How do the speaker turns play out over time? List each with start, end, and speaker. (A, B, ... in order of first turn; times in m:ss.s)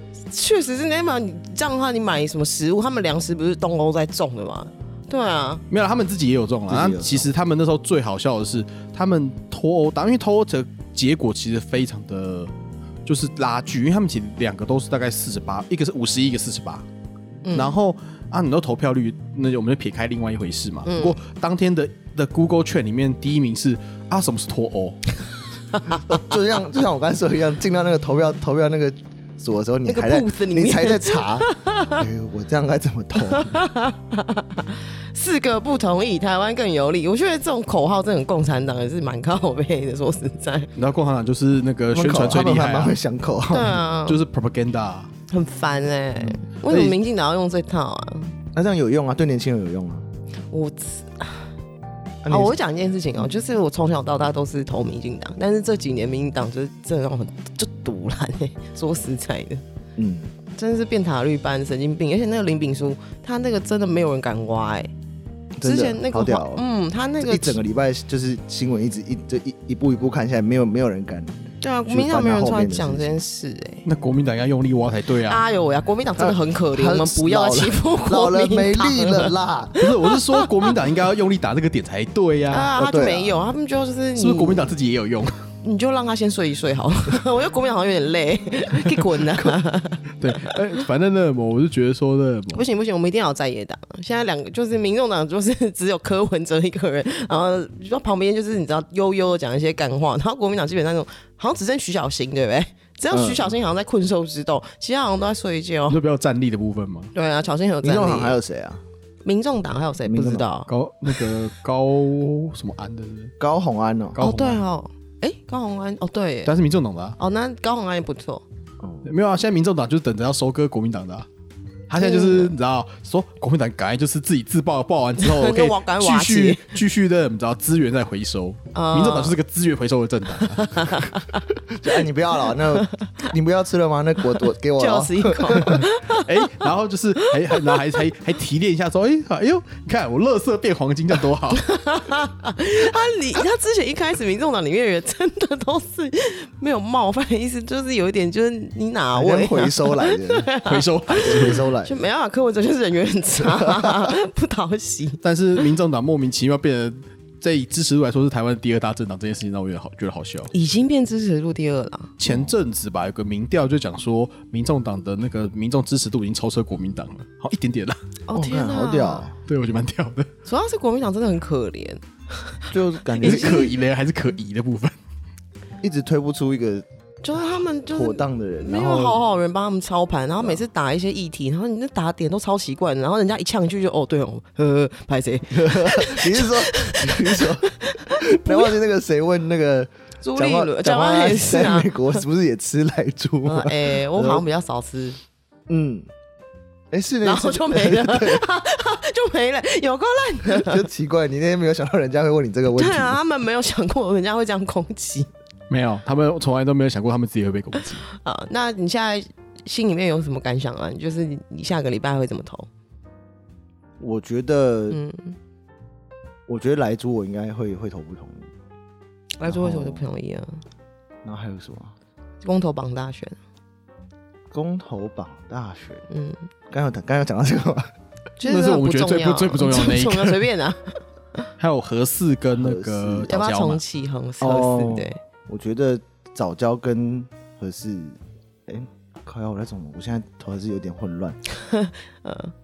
0:00.3-0:05.6 A
0:05.7-0:12.5 B
0:06.7-0:07.3 C
0:13.1-0:16.9 B
0:17.4-0:17.8 A
0:17.5-0:25.2 B
0:20.9-0:21.2 A
0:25.8-0:26.0 A
0:26.0-0:33.6 C
0:29.8-0:32.0 A
0:33.2-0:40.7 A
0:40.8-0:43.0 B
0:41.9-0:43.8 C
0:43.5-0:44.2 A
0:44.1-0:45.1 B
0:45.3-0:48.3 A
0:46.7-0:47.0 B
0:48.5-0:50.0 C
0:50.5-0:51.5 A
0:52.2-0:52.6 C
0:52.3-0:59.6 A
1:00.0-1:00.3 C
1:00.6-1:04.9 A
1:05.6-1:06.6 C
1:05.6-1:07.6 A
1:07.2-1:13.2 C
1:11.6-1:13.9 A
1:13.8-1:15.4 B
1:15.2-1:19.3 A
1:16.2-1:19.8 C
1:19.8-1:22.8 B
1:19.9-1:20.7 A
1:22.5-1:24.7 A
1:22.8-1:23.4 C
1:24.2-1:25.4 B
1:25.6-1:30.1 A
1:30.2-1:32.7 B
1:32.5-1:46.0 A
1:43.1-1:43.6 C
1:45.9-1:47.1 B
1:47.1-1:48.4 A
1:47.8-1:48.8 C
1:49.2-1:50.7 A
1:50.0-1:50.5 C
1:50.7-1:53.3 B
1:53.4-1:54.2 C
1:54.1-1:54.6 B
1:54.2-1:56.5 A
1:56.4-1:57.2 B
1:57.2-1:58.4 A
1:58.8-1:59.1 C
1:59.0-2:01.3 B
2:01.9-2:11.2 B
2:02.0-2:02.6 A
2:05.2-2:06.8 A
2:08.7-2:09.4 A
2:10.7-2:11.4 A
2:11.8-2:15.9 C
2:12.8-2:13.3 A
2:14.8-2:16.4 A
2:16.2-2:21.7 B
2:17.2-2:17.8 A
2:21.6-2:35.2 A
2:29.1-2:30.5 C
2:30.6-2:31.7 B
2:31.2-2:32.0 C
2:33.4-2:34.1 C
2:35.2-2:40.5 B
2:40.5-2:42.2 A
2:42.2-2:48.0 B
2:48.3-2:49.3 A
2:48.4-2:49.4 C
2:49.5-2:50.3 B
2:50.5-2:52.7 A
2:52.7-2:53.8 C
2:53.2-2:55.0 B
2:53.2-2:53.7 A
2:55.8-2:56.9 C
2:57.2-3:08.8 A
2:57.4-2:59.2 C
3:05.5-3:14.4 C
3:10.2-3:12.2 A
3:13.4-3:15.2 A
3:15.7-3:16.1 C
3:16.9-3:18.4 C
3:17.2-3:20.8 A
3:20.4-3:23.2 C
3:22.7-3:25.3 A
3:25.7-3:28.0 B
3:27.9-3:32.7 A
3:34.0-3:35.0 C
3:34.9-3:35.4 A
3:36.5-3:38.5 C
3:39.4-3:40.6 A
3:39.4-3:40.1 C
3:41.2-3:41.9 C
3:42.4-3:43.4 A
3:44.5-3:46.0 C
3:46.1-3:46.5 A
3:46.7-3:47.9 C
3:48.4-3:51.4 A
3:48.4-3:50.5 B
3:51.6-3:53.8 B
3:52.5-3:53.4 C
3:53.3-3:55.2 A
3:54.4-4:01.4 C
4:01.6-4:02.5 A